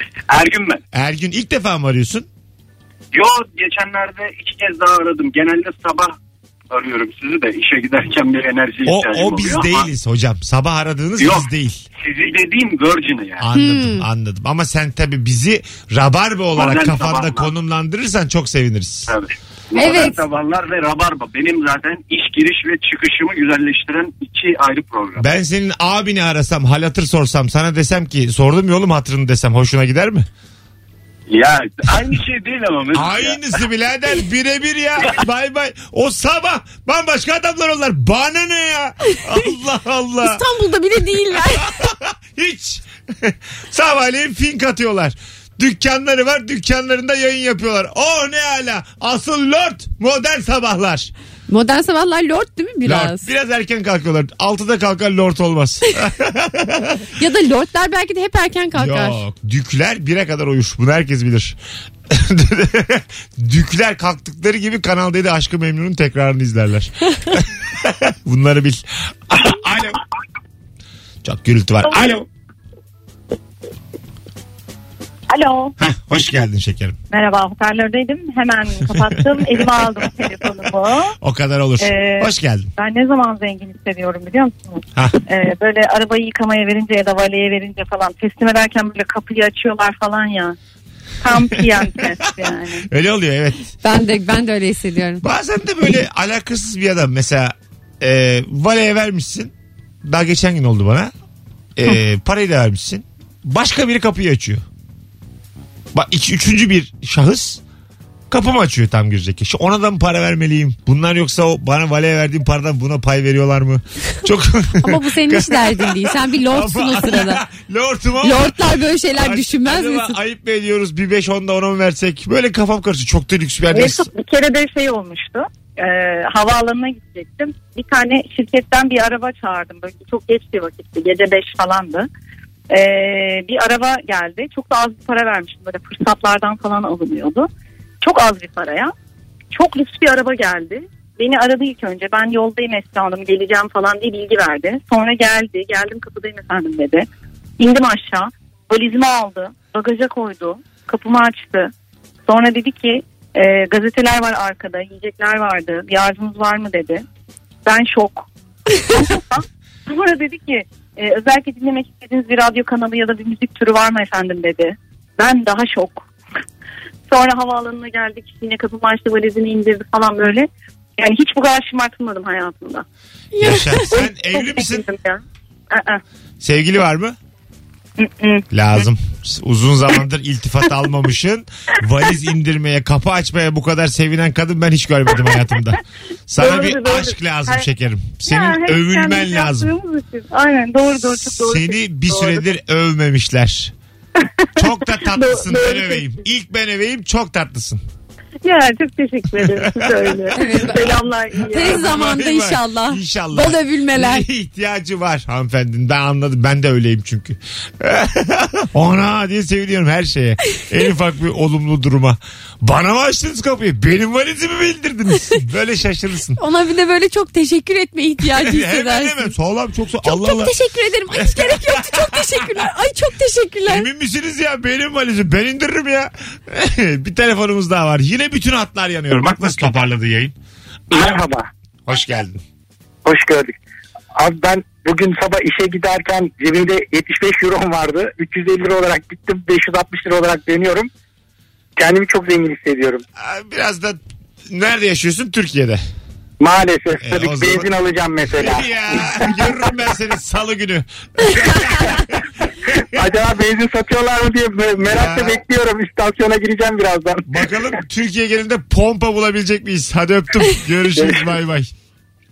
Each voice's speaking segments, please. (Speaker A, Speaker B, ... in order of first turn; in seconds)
Speaker A: 0.3-0.8, 3.1-6.2, 6.7-9.9, 11.2-11.5, 12.0-13.4, 16.5-17.5, 19.1-25.2, 31.3-33.4
Speaker B: 0.9-2.2, 8.8-11.8, 13.4-19.1, 25.2-30.3, 32.9-40.4, 41.3-51.1, 52.8-57.0, 58.7-61.6, 62.1-70.0, 71.2-72.2, 75.8-77.0, 81.2-82.7, 91.3-93.7, 95.2-99.5, 100.0-101.1, 101.8-104.6, 105.9-107.6, 108.3-124.1, 173.4-174.8, 176.4-177.2, 178.5-189.7, 191.2-193.7, 194.6-197.8, 199.3-200.8, 201.5-216.4, 218.3-220.5, 221.1-222.6, 223.7-230.3, 231.8-232.4, 243.2-245.8, 247.0-247.7, 248.3-252.2, 254.8-255.4, 257.2-261.7
Speaker C: 13.5-14.0, 19.8-20.2, 40.2-41.8, 51.5-53.3, 57.2-59.2, 93.8-95.2, 114.8-117.4, 118.2-120.2, 173.3-173.9, 200.3-200.9, 201.5-204.3, 216.4-219.3, 220.0-223.9
Speaker D: 71.8-72.1, 75.3-75.7, 77.1-81.1, 81.8-90.5, 91.2-92.9, 123.7-132.1, 132.7-137.5, 138.0-138.9, 139.5-147.1, 147.6-151.7, 152.3-157.0, 157.6-158.3, 158.9-166.1, 167.1-172.8, 173.9-176.0, 178.0-178.4, 186.4-187.7, 188.2-192.4, 194.2-196.1, 198.4-201.9
Speaker E: 230.9-231.4, 233.1-233.5, 234.1-240.9, 241.8-243.0, 246.4-248.6, 252.9-257.3